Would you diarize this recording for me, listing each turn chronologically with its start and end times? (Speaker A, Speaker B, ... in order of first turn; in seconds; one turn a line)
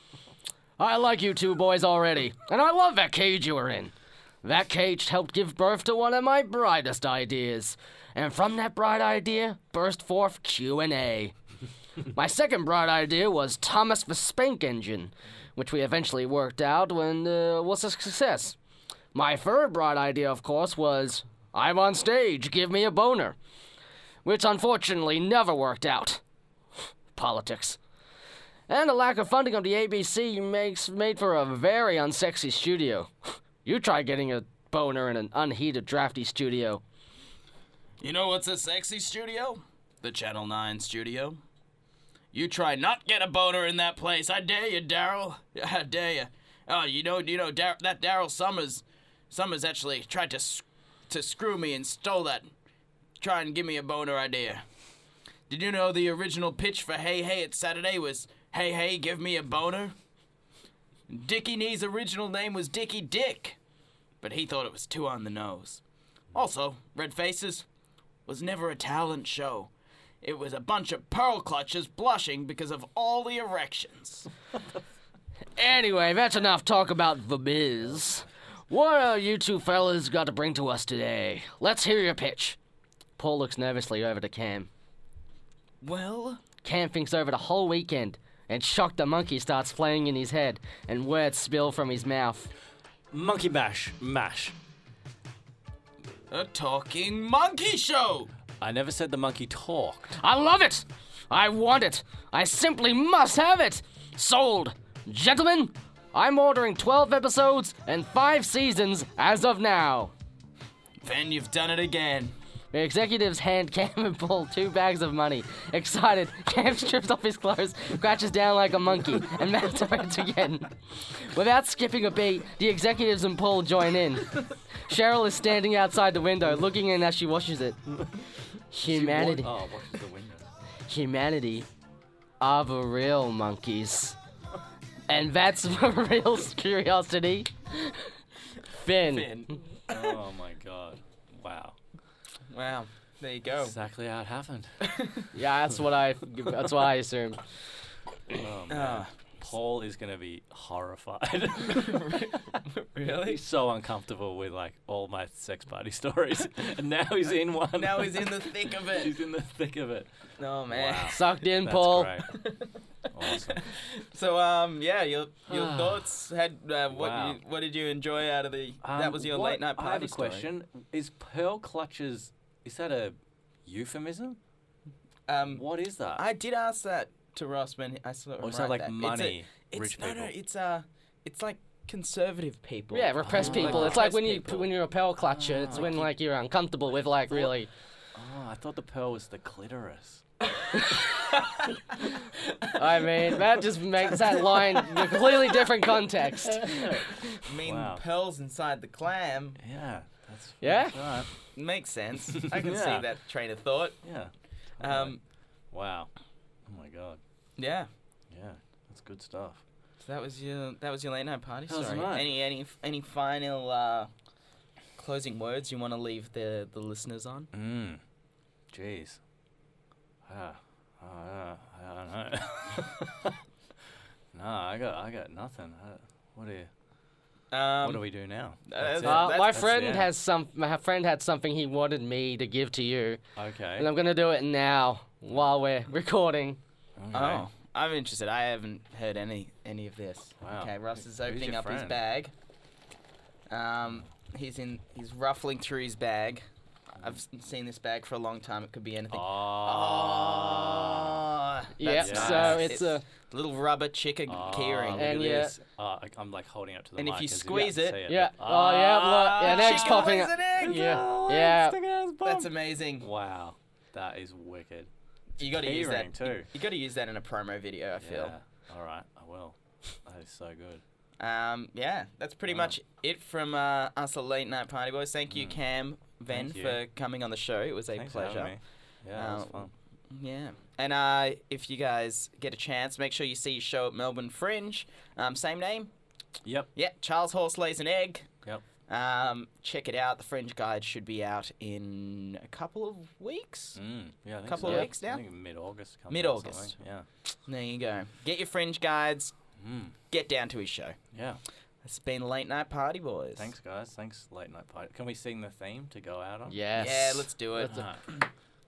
Speaker A: 0.8-11.3
Speaker A: 12.1-18.6
Speaker A: 19.1-23.4
Speaker A: 24.2-26.2
Speaker A: 27.1-27.8
Speaker A: 28.7-33.1
Speaker A: 33.6-36.8
Speaker B: 38.0-41.4
Speaker B: 42.3-52.5
Speaker B: 53.2-54.6
Speaker B: 55.5-60.0
Speaker B: 61.1-63.6
Speaker B: 64.2-65.8
Speaker B: 66.3-67.7
Speaker B: 68.3-74.3
Speaker A: 75.6-82.6
Speaker A: 83.2-84.7
Speaker B: 85.8-86.4
Speaker A: 86.6-92.5
Speaker C: 93.1-94.6
Speaker B: 96.3-98.3
Speaker C: 98.6-100.2
Speaker A: 100.2-110.1
Speaker B: 111.0-112.3
Speaker A: 112.7-128.0
Speaker A: 128.7-129.5
Speaker C: 128.9-130.4
Speaker A: 130.9-131.7
Speaker A: 132.4-134.2
Speaker A: 135.1-138.1
Speaker A: 138.8-139.3
Speaker B: 139.0-140.2
Speaker C: 139.9-141.8
Speaker B: 142.5-143.8
Speaker C: 143.6-144.8
Speaker B: 144.8-145.3
Speaker A: 145.3-147.4
Speaker C: 148.3-152.3
Speaker B: 148.7-149.1
Speaker B: 151.9-153.4
Speaker C: 153.1-160.1
Speaker B: 157.8-159.1
Speaker B: 160.4-161.2
Speaker C: 160.7-162.3
Speaker A: 161.1-162.2
Speaker B: 162.3-170.5
Speaker C: 163.1-163.6
Speaker C: 165.5-166.1
Speaker C: 166.9-167.4
Speaker C: 168.8-174.4
Speaker B: 175.3-175.6
Speaker C: 175.5-176.2
Speaker B: 176.2-184.7
Speaker C: 178.4-180.3
Speaker A: 182.9-187.7
Speaker C: 183.2-184.0
Speaker C: 185.2-185.9
Speaker C: 188.2-190.2
Speaker A: 192.7-197.4
Speaker C: 196.5-197.1
Speaker B: 197.4-199.6
Speaker C: 197.6-198.0
Speaker C: 199.6-201.3
Speaker A: 200.6-201.1
Speaker B: 201.5-204.0
Speaker C: 202.3-203.1
Speaker C: 204.0-205.2
Speaker B: 204.8-205.2
Speaker C: 205.7-206.1
Speaker C: 206.7-207.2
Speaker B: 207.6-207.9
Speaker C: 208.3-209.6
Speaker B: 210.0-214.1
Speaker C: 211.7-212.3
Speaker B: 215.0-217.5
Speaker C: 217.5-218.0
Speaker C: 218.7-219.2
Speaker C: 220.3-223.4
Speaker C: 224.3-226.7
Speaker B: 227.5-228.1
Speaker C: 227.8-230.1
Speaker B: 228.7-229.6
Speaker A: 229.0-233.2
Speaker C: 233.4-233.9
Speaker A: 233.8-236.6
Speaker C: 237.0-237.5
Speaker B: 237.1-242.3
Speaker C: 240.4-242.0
Speaker B: 243.5-246.4
Speaker B: 247.0-255.5
Speaker C: 249.1-251.2
Speaker A: 251.8-253.0
Speaker C: 252.0-252.8
Speaker C: 254.3-266.5
Speaker A: 254.9-255.6
Speaker B: 257.0-258.0
Speaker A: 258.1-261.8
Speaker B: 259.3-261.1
Speaker B: 262.2-263.1
Speaker B: 265.4-268.3
Speaker C: 268.0-270.8
Speaker B: 271.2-278.6
Speaker C: 272.5-272.8
Speaker C: 275.3-275.6
Speaker C: 276.3-276.8
Speaker C: 277.9-279.7
Speaker B: 279.1-285.9
Speaker C: 286.4-286.7
Speaker B: 286.8-288.3
Speaker B: 288.9-293.8
Speaker C: 293.8-297.1
Speaker B: 294.5-295.2
Speaker B: 296.1-296.8
Speaker B: 297.5-299.3
Speaker C: 299.6-299.9
Speaker B: 300.1-301.0
Speaker C: 301.1-301.4
Speaker B: 301.8-303.5
Speaker C: 303.4-306.6
Speaker A: 306.5-307.8
Speaker B: 306.8-307.8
Speaker C: 307.6-308.0